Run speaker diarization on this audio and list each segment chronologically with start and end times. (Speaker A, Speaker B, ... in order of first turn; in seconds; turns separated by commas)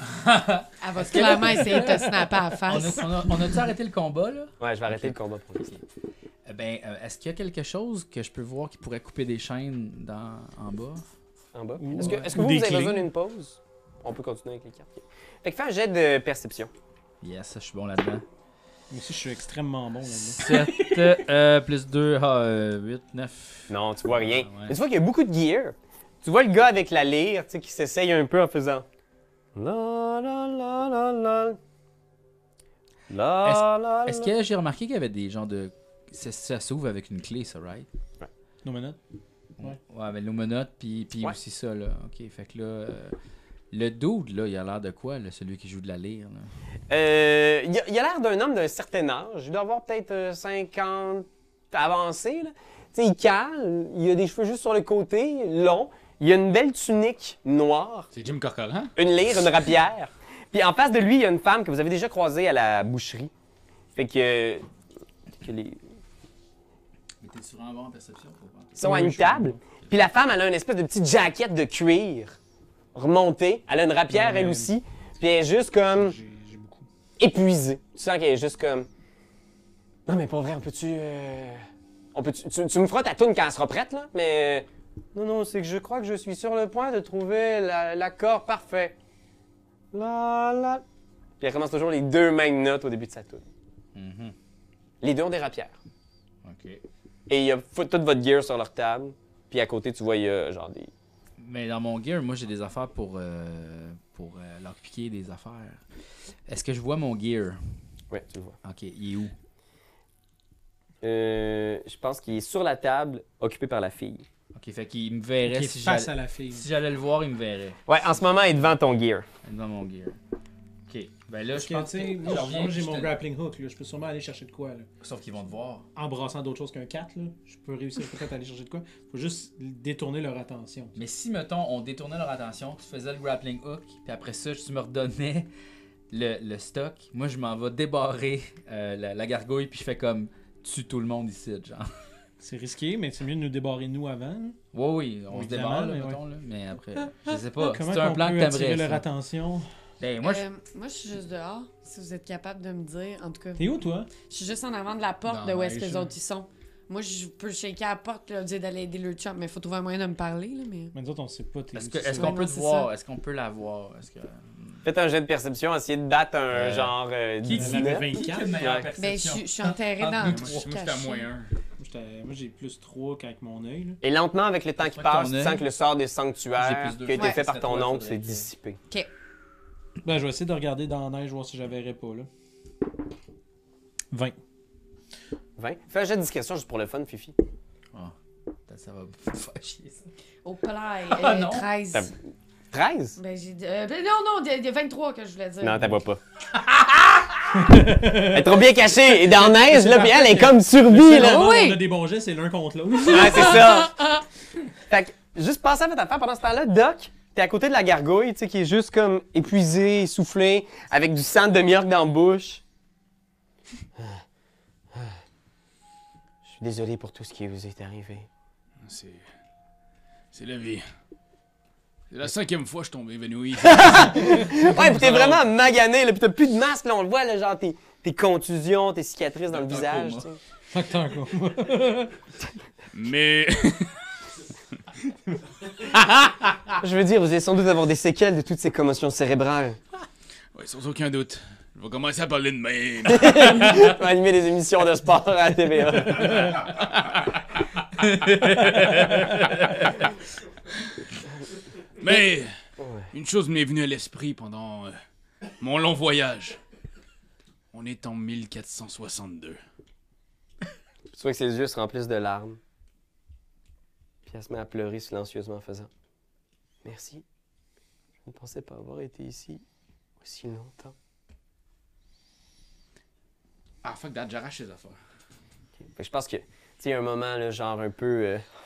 Speaker A: 0.2-2.0, Speaker B: 0.8-3.5, Speaker A: 2.6-5.8, Speaker C: 4.6-5.7, Speaker A: 6.5-11.0, Speaker C: 11.5-16.7, Speaker D: 11.8-13.0, Speaker A: 17.2-18.2, Speaker D: 18.9-21.1, Speaker A: 20.1-24.8, Speaker C: 23.7-28.9, Speaker C: 29.6-31.6, Speaker C: 33.1-34.3, Speaker A: 33.4-37.9, Speaker D: 38.6-39.0, Speaker A: 39.6-43.1, Speaker A: 43.7-46.5, Speaker C: 46.9-58.1, Speaker E: 58.1-58.9, Speaker C: 59.0-63.3, Speaker C: 64.0-64.7, Speaker C: 65.4-65.8, Speaker A: 67.2-68.9, Speaker C: 68.8-72.4, Speaker D: 68.8-69.6, Speaker C: 73.0-76.2, Speaker D: 74.1-74.7, Speaker D: 75.9-76.9, Speaker C: 77.2-78.9, Speaker C: 80.1-89.0, Speaker C: 89.9-90.8, Speaker C: 91.4-93.5, Speaker A: 94.0-94.3, Speaker C: 95.0-95.8, Speaker A: 96.4-96.8, Speaker C: 97.3-100.9, Speaker A: 101.4-105.8, Speaker A: 106.5-107.6, Speaker C: 108.1-108.6, Speaker A: 108.6-109.3, Speaker C: 111.0-114.3, Speaker A: 114.5-117.8, Speaker D: 115.5-116.7, Speaker C: 117.9-119.3, Speaker A: 119.4-120.2, Speaker A: 120.9-123.2, Speaker D: 121.5-124.9, Speaker A: 125.0-125.9, Speaker D: 126.0-131.0, Speaker A: 131.0-135.5, Speaker A: 136.1-141.9, Speaker D: 142.4-144.6, Speaker A: 144.7-149.0, Speaker D: 145.3-146.2, Speaker D: 147.6-149.7, Speaker A: 150.0-150.4, Speaker B: 150.2-160.9, Speaker D: 153.6-154.1, Speaker E: 155.3-156.1, Speaker D: 160.9-162.4, Speaker A: 161.8-164.8, Speaker B: 162.1-162.9, Speaker C: 164.8-168.9, Speaker A: 166.5-170.6, Speaker D: 167.5-168.6, Speaker B: 169.0-171.3, Speaker E: 170.0-171.5, Speaker D: 171.8-174.0, Speaker C: 174.0-178.8, Speaker A: 174.8-175.7, Speaker A: 176.6-178.5, Speaker B: 177.2-177.4, Speaker D: 180.0-182.3, Speaker C: 185.6-187.4, Speaker A: 188.7-190.1, Speaker B: 190.4-192.1, Speaker A: 191.1-191.7, Speaker C: 192.7-193.2, Speaker B: 193.2-195.9, Speaker C: 195.6-201.4, Speaker D: 197.5-198.6, Speaker D: 199.3-203.7, Speaker B: 201.1-201.8, Speaker C: 203.1-203.9, Speaker C: 204.9-212.6, Speaker C: 214.9-215.2, Speaker C: 216.4-218.3, Speaker E: 218.8-219.3, Speaker E: 220.3-220.9, Speaker E: 222.1-225.4, Speaker C: 223.7-230.4, Speaker A: 229.5-230.3, Speaker D: 230.7-232.2, Speaker E: 232.9-234.0, Speaker C: 236.8-239.8, Speaker E: 240.6-243.9, Speaker C: 243.1-246.6, Speaker E: 246.2-247.6, Speaker A: 248.0-249.4, Speaker E: 248.4-250.1, Speaker E: 252.0-252.5, Speaker C: 252.8-253.1, Speaker E: 253.1-255.0, Speaker E: 255.6-256.6, Speaker E: 257.7-259.6, Speaker C: 261.1-262.6, Speaker C: 264.2-265.9, Speaker C: 266.8-267.2, Speaker C: 268.2-269.6, Speaker C: 270.2-270.9, Speaker E: 273.8-275.0, Speaker C: 275.8-278.4